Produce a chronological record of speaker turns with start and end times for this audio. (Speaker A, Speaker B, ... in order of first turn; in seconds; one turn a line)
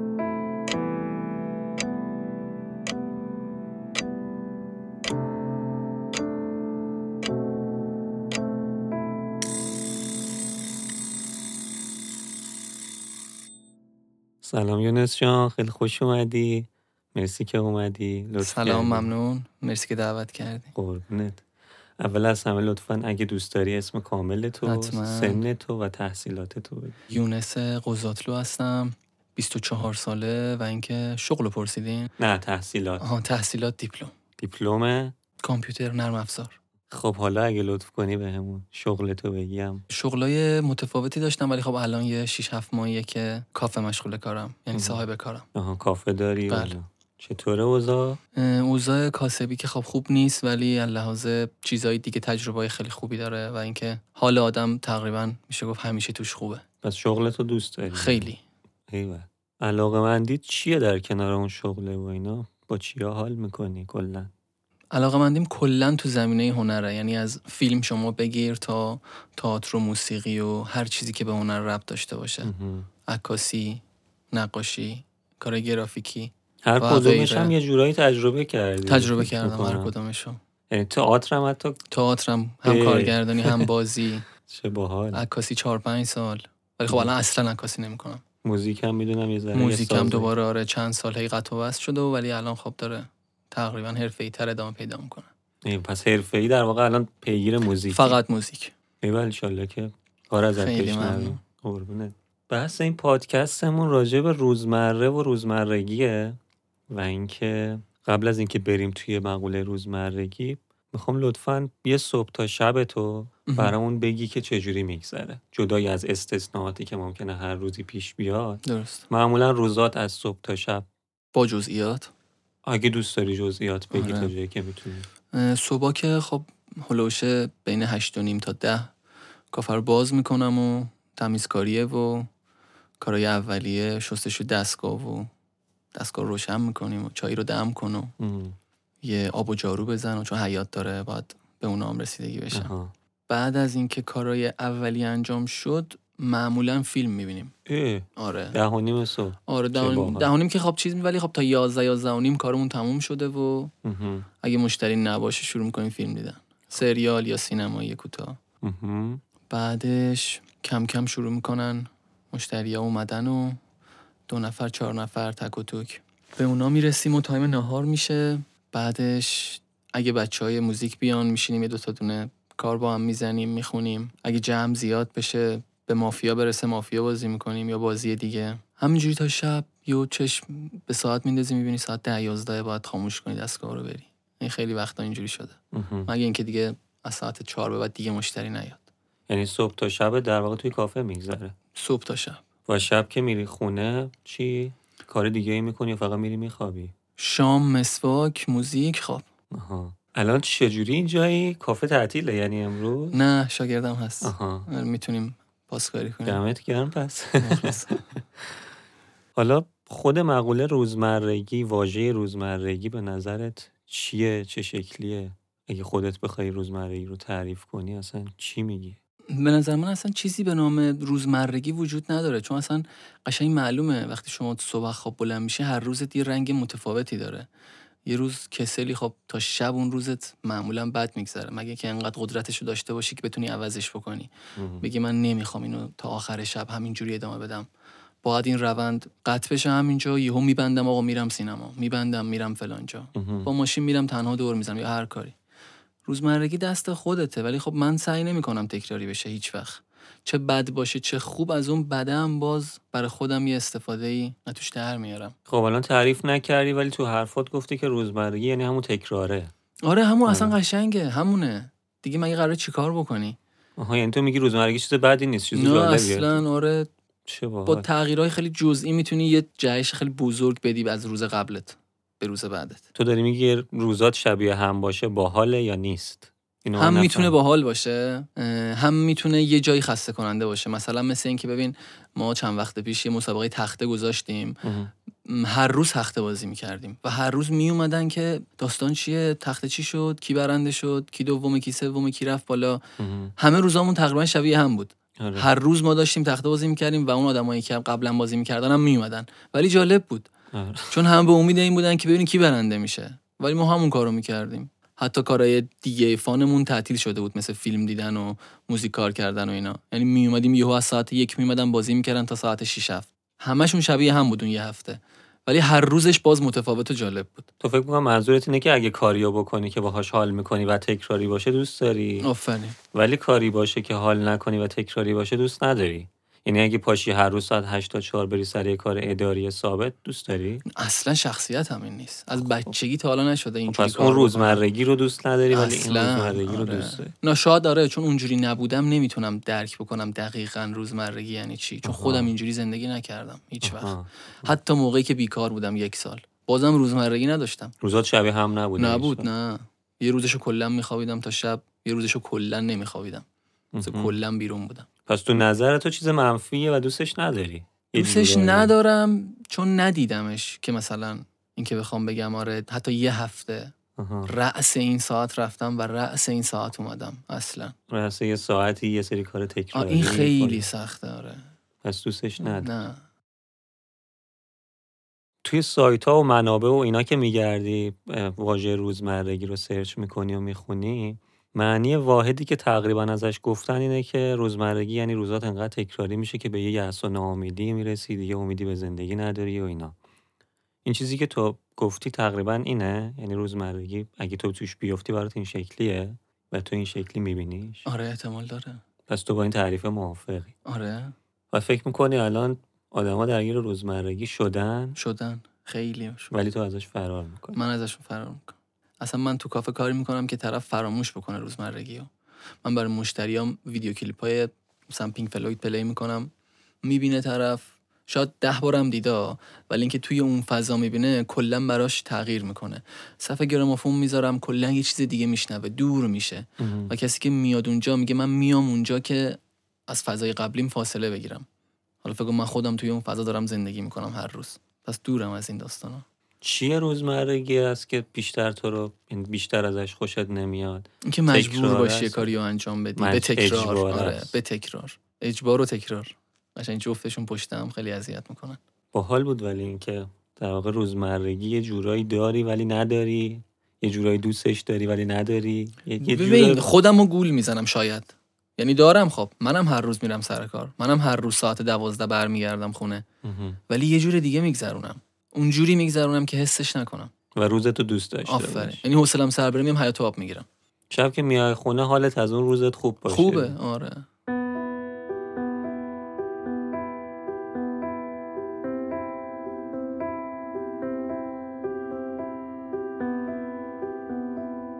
Speaker A: 14.4-19.1
Speaker B: 18.4-20.7
Speaker A: 20.8-21.4
Speaker A: 22.0-27.0
Speaker B: 24.6-25.4
Speaker B: 27.1-32.1
Speaker A: 32.2-33.0
Speaker B: 33.0-34.1
Speaker A: 34.4-35.1
Speaker B: 35.4-36.5
Speaker A: 36.9-39.8
Speaker B: 39.9-45.5
Speaker A: 44.7-48.2
Speaker B: 46.5-46.8
Speaker B: 48.4-56.6
Speaker A: 56.8-58.3
Speaker B: 57.9-58.4
Speaker A: 58.9-64.3
Speaker B: 64.9-72.5
Speaker A: 72.4-72.9
Speaker B: 73.1-77.5
Speaker A: 76.6-79.9
Speaker B: 78.8-80.4
Speaker A: 80.7-81.8
Speaker B: 81.9-84.2
Speaker A: 82.6-83.7
Speaker A: 84.5-85.2
Speaker B: 85.1-88.2
Speaker A: 88.4-90.3
Speaker B: 89.5-95.3
Speaker A: 95.7-98.2
Speaker B: 97.9-98.7
Speaker A: 99.0-106.4
Speaker B: 100.6-101.4
Speaker A: 106.9-120.8
Speaker B: 113.5-113.7
Speaker B: 118.6-119.1
Speaker B: 121.3-122.1
Speaker A: 122.6-125.0
Speaker B: 123.9-124.3
Speaker B: 125.3-128.9
Speaker B: 129.5-132.3
Speaker B: 133.0-135.3
Speaker B: 135.9-138.1
Speaker A: 138.2-138.6
Speaker B: 139.0-142.7
Speaker A: 142.5-142.9
Speaker B: 143.3-147.5
Speaker A: 147.7-150.3
Speaker B: 148.2-148.6
Speaker B: 149.5-153.7
Speaker A: 153.8-154.3
Speaker B: 154.4-158.4
Speaker A: 158.6-159.2
Speaker B: 159.5-163.6
Speaker B: 164.3-188.9
Speaker A: 185.7-186.1
Speaker A: 189.3-191.5
Speaker B: 191.7-192.4
Speaker A: 192.7-196.9
Speaker B: 197.2-199.2
Speaker A: 199.5-203.2
Speaker B: 203.1-206.4
Speaker A: 204.2-204.7
Speaker A: 206.2-208.2
Speaker B: 207.4-208.0
Speaker A: 209.3-219.0
Speaker B: 219.3-227.5
Speaker B: 228.1-237.7
Speaker A: 234.6-234.8
Speaker B: 238.2-245.3
Speaker A: 243.1-243.5
Speaker B: 246.1-255.3
Speaker A: 255.5-259.5
Speaker B: 259.9-263.4
Speaker A: 260.2-260.5
Speaker A: 263.8-266.4
Speaker B: 265.5-266.9
Speaker A: 267.2-267.9
Speaker B: 267.6-272.8
Speaker A: 272.9-277.3
Speaker B: 276.8-284.6
Speaker A: 284.6-284.9
Speaker B: 285.3-292.8
Speaker A: 293.0-293.3
Speaker B: 293.4-300.3
Speaker A: 295.2-295.5
Speaker A: 300.5-301.0
Speaker B: 300.9-317.5
Speaker A: 317.6-322.3
Speaker B: 322.2-322.8
Speaker A: 322.9-330.6
Speaker B: 330.7-334.6
Speaker A: 333.7-337.1
Speaker B: 335.5-347.7
Speaker A: 341.8-342.3
Speaker A: 343.6-344.5
Speaker A: 347.8-349.3
Speaker B: 348.8-353.2
Speaker A: 353.7-354.1
Speaker B: 353.8-354.9
Speaker A: 355.1-358.7
Speaker B: 357.9-363.7
Speaker A: 364.0-364.3
Speaker B: 364.3-367.7
Speaker A: 367.9-370.6
Speaker B: 369.7-371.4
Speaker A: 371.8-372.8
Speaker B: 372.6-373.0
Speaker A: 375.4-389.9
Speaker A: 390.8-397.9
Speaker B: 397.9-398.8
Speaker A: 399.1-400.5
Speaker B: 400.6-401.1
Speaker A: 401.5-405.0
Speaker B: 404.9-406.3
Speaker A: 406.3-407.6
Speaker B: 407.5-412.1
Speaker B: 412.6-416.3
Speaker B: 416.8-431.5
Speaker A: 426.6-426.9
Speaker B: 432.0-436.0
Speaker A: 436.4-442.3
Speaker B: 441.0-448.6
Speaker A: 442.9-444.4
Speaker A: 448.9-456.7
Speaker B: 456.0-463.0
Speaker A: 463.2-463.6
Speaker B: 463.7-467.1
Speaker A: 467.4-468.8
Speaker B: 468.3-470.5
Speaker A: 470.9-473.5
Speaker B: 473.1-474.1